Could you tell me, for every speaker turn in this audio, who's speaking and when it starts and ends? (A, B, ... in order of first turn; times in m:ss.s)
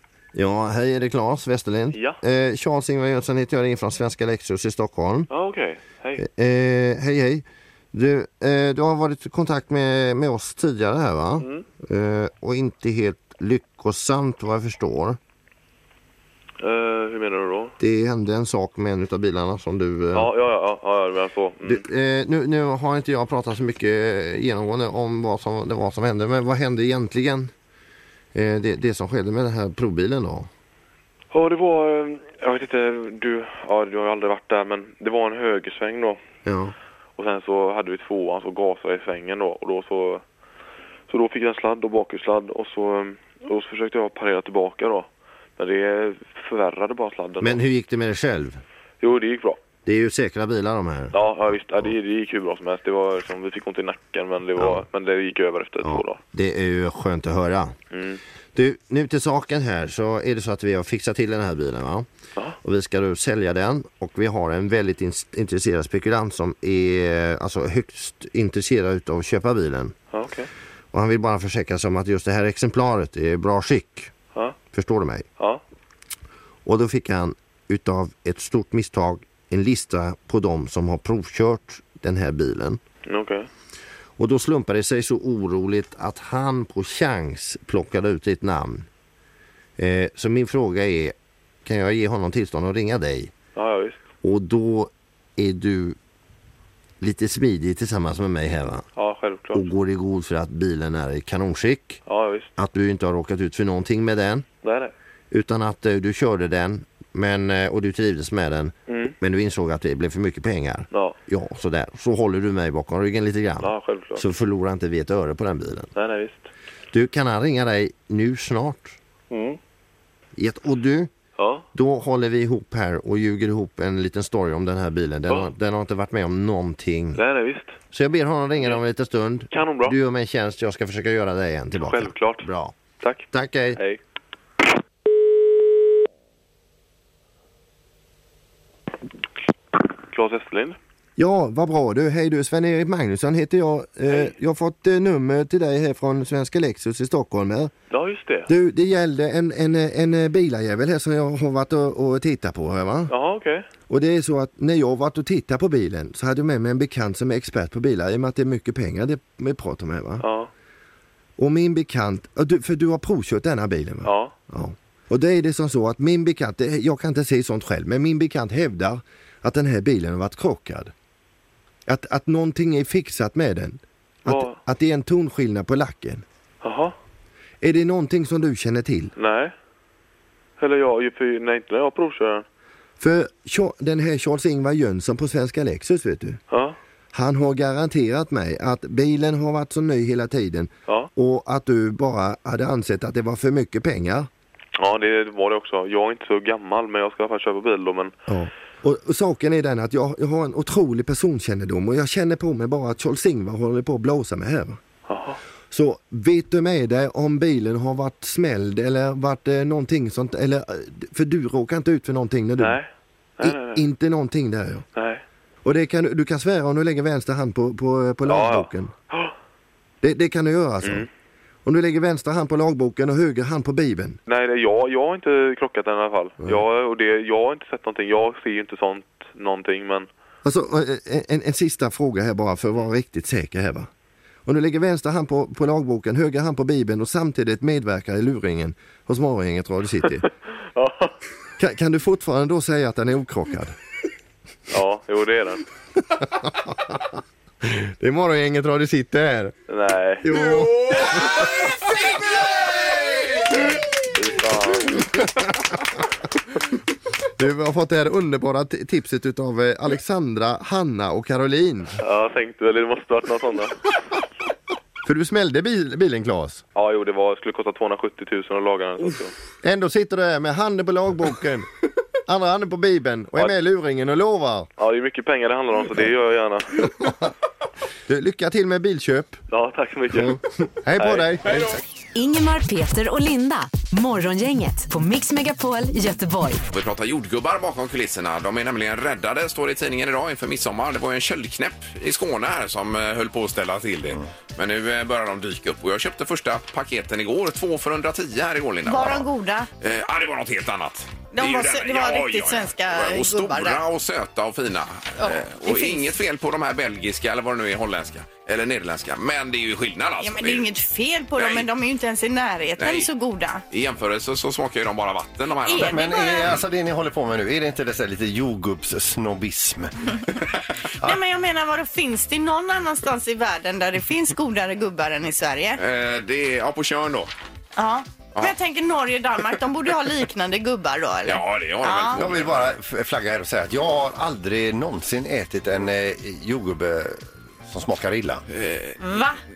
0:00.3-0:05.3 A
0:01.9-0:02.2 B
0:05.3-0:06.2 B
0:06.2-0:15.2 A
0:11.4-0:11.6 B
0:16.6-0:17.7 B
0:17.8-0:20.3 A
0:20.1-0:21.8 B
0:21.6-0:27.5 A
0:28.3-0:30.5 A
0:31.3-0:36.2 B
0:36.4-0:36.7 A
0:37.2-0:40.2 B
0:41.1-0:47.6 B
0:47.4-0:48.6 A
0:49.0-0:49.6 B
0:49.8-0:51.2 A
0:51.1-0:56.2 B
0:54.6-0:54.8 A
0:55.8-0:57.8 A
0:57.9-0:58.2 B
0:58.6-1:02.1 A
1:02.6-1:10.0 A
1:10.1-1:10.5 B
1:10.9-1:14.1 A
1:14.7-1:15.3 A
1:16.6-1:22.8 A
1:23.1-1:23.5 B
1:24.2-1:28.9 A
1:29.8-1:33.3 A
1:33.6-1:34.0 B
1:34.2-1:36.0 A
1:37.0-1:38.9 A
1:39.0-1:39.7 B
1:39.5-1:42.0 A
1:42.1-1:42.5 B
1:42.6-1:44.5 A
1:44.6-1:44.9 B
1:45.3-1:55.9 A
1:48.9-1:49.2 B
1:50.9-1:51.2 B
1:53.6-1:54.2 B
1:56.0-1:56.5 B
1:56.9-1:59.0 A
2:00.4-2:01.1 A
2:01.4-2:01.6 B
2:01.7-2:07.2 A
2:07.2-2:07.8 B
2:07.9-2:12.8 A
2:09.5-2:10.0 B
2:11.8-2:12.5 B
2:13.0-2:14.0 B
2:13.3-2:13.8 A
2:20.1-2:20.8 B
2:21.2-2:27.7 A
2:27.9-2:28.5 B
2:28.5-2:33.1 A
2:33.1-2:33.7 B
2:33.9-2:40.3 A
2:40.2-2:40.5 B
2:41.4-2:50.9 A
2:44.0-2:44.3 B
2:51.9-2:56.2 A
2:54.2-2:54.6 B
2:56.6-2:56.9 B
2:57.6-2:59.1 A
2:59.2-2:59.5 B
3:00.6-3:02.4 B
3:03.0-3:06.4 A
3:06.5-3:06.8 B
3:07.1-3:14.3 A
3:14.8-3:18.1 B
3:18.3-3:24.8 A
3:25.1-3:25.4 B
3:25.7-3:32.8 A
3:32.6-3:32.9 B
3:33.4-3:33.8 B
3:33.4-3:34.8 A
3:35.0-3:35.2 B
3:35.6-3:38.9 A
3:38.3-3:39.3 B
3:40.0-3:41.1 A
3:40.8-3:41.1 B
3:41.6-3:44.2 A
3:44.3-3:50.1 B
3:50.4-3:53.9 A
3:54.5-4:00.3 A
4:00.8-4:01.1 B
4:01.6-4:03.8 A
4:04.7-4:05.6 B
4:06.2-4:09.6 A
4:09.7-4:10.3 B
4:10.2-4:11.5 A
4:10.5-4:13.5 C
4:14.1-4:15.1 B
4:17.4-4:22.0 A
4:22.0-4:23.8 B
4:25.0-4:26.6 A
4:26.8-4:29.3 B
4:29.6-4:31.7 A
4:32.3-4:34.7 A
4:34.8-4:36.8 B
4:38.1-4:39.4 A
4:39.5-4:40.4 B
4:40.2-4:41.8 A
4:41.0-4:41.3 B
4:41.4-4:41.8 C
4:42.2-4:46.6 D
4:46.7-4:59.3 C
4:58.9-4:59.7 E
4:59.8-5:10.7 C
5:01.3-5:03.8 E
5:05.2-5:06.1 E
5:10.2-5:13.6 E
5:11.4-5:11.7 C
5:12.8-5:13.1 C
5:13.7-5:16.0 C
5:15.6-5:16.5 E
5:15.8-5:20.2 F
5:21.0-5:25.8 E
5:25.8-5:27.3 C
5:27.8-5:32.2 E
5:31.3-5:32.7 C
5:32.2-5:38.4 F
5:38.5-5:39.0 C
5:39.0-5:39.4 E